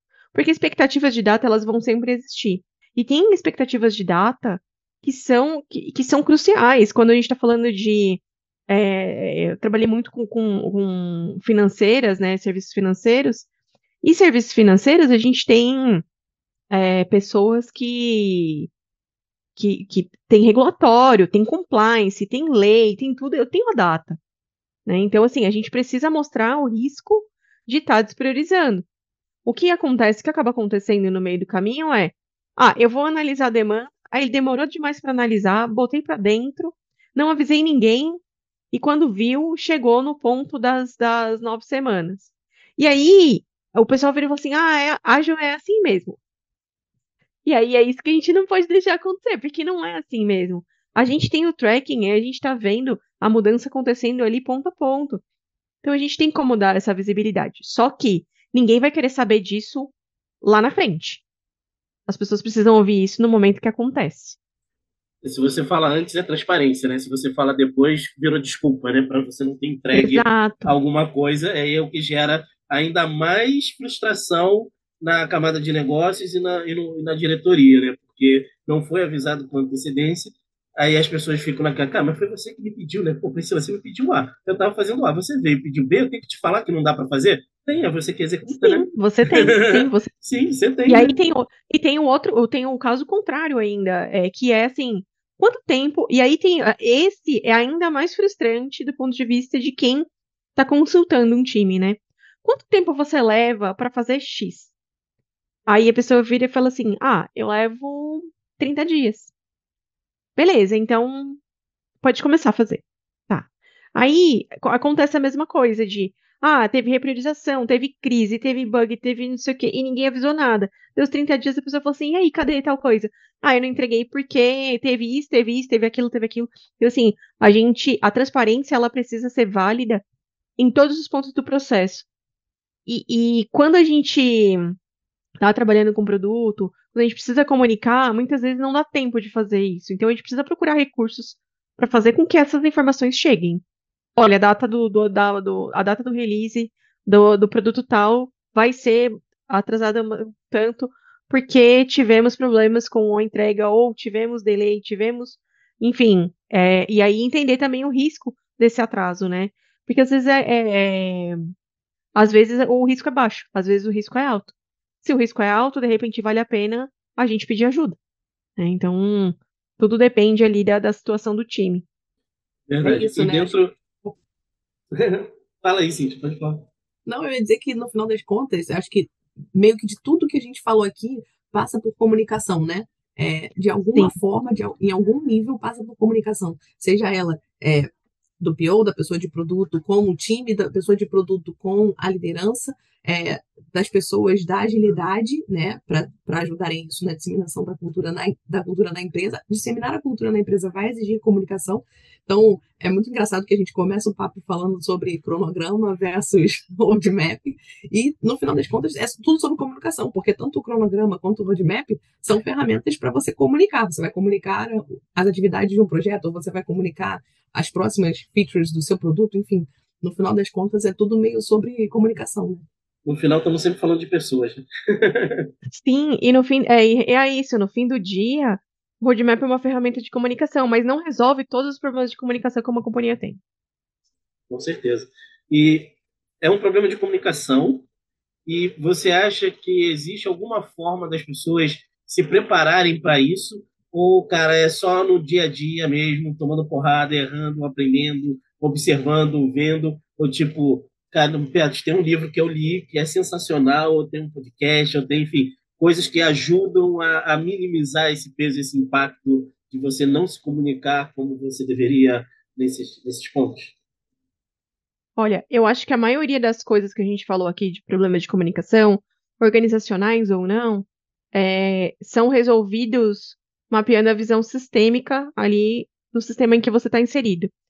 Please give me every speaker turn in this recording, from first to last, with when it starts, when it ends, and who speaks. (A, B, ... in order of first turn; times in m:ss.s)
0:00.3-0:13.5 A
0:14.0-0:16.0 A
0:16.7-0:18.7 A
0:19.6-0:24.2 A
0:24.8-0:28.8 A
0:29.4-0:38.2 A
0:38.7-0:46.2 A
0:47.4-0:55.2 A
0:55.8-1:01.2 A
1:02.1-1:04.4 A
1:05.2-1:31.1 B
1:09.9-1:10.7 A
1:28.4-1:30.1 A
1:30.8-1:44.7 A
1:45.7-1:49.3 A
1:50.4-1:51.4 A
1:52.0-2:10.0 A
2:10.6-2:12.0 A
2:12.9-2:14.8 A
2:15.4-2:23.6 A
2:24.2-2:41.4 A
2:42.1-2:48.0 A
2:48.6-2:51.8 A
2:52.7-2:53.7 B
2:52.8-2:54.1 C
2:54.9-2:56.7 B
2:57.0-3:42.6 C
3:43.0-3:45.5 B
3:45.7-3:53.4 A
3:54.5-3:57.9 B
3:58.4-4:23.8 B
4:25.2-4:37.5 A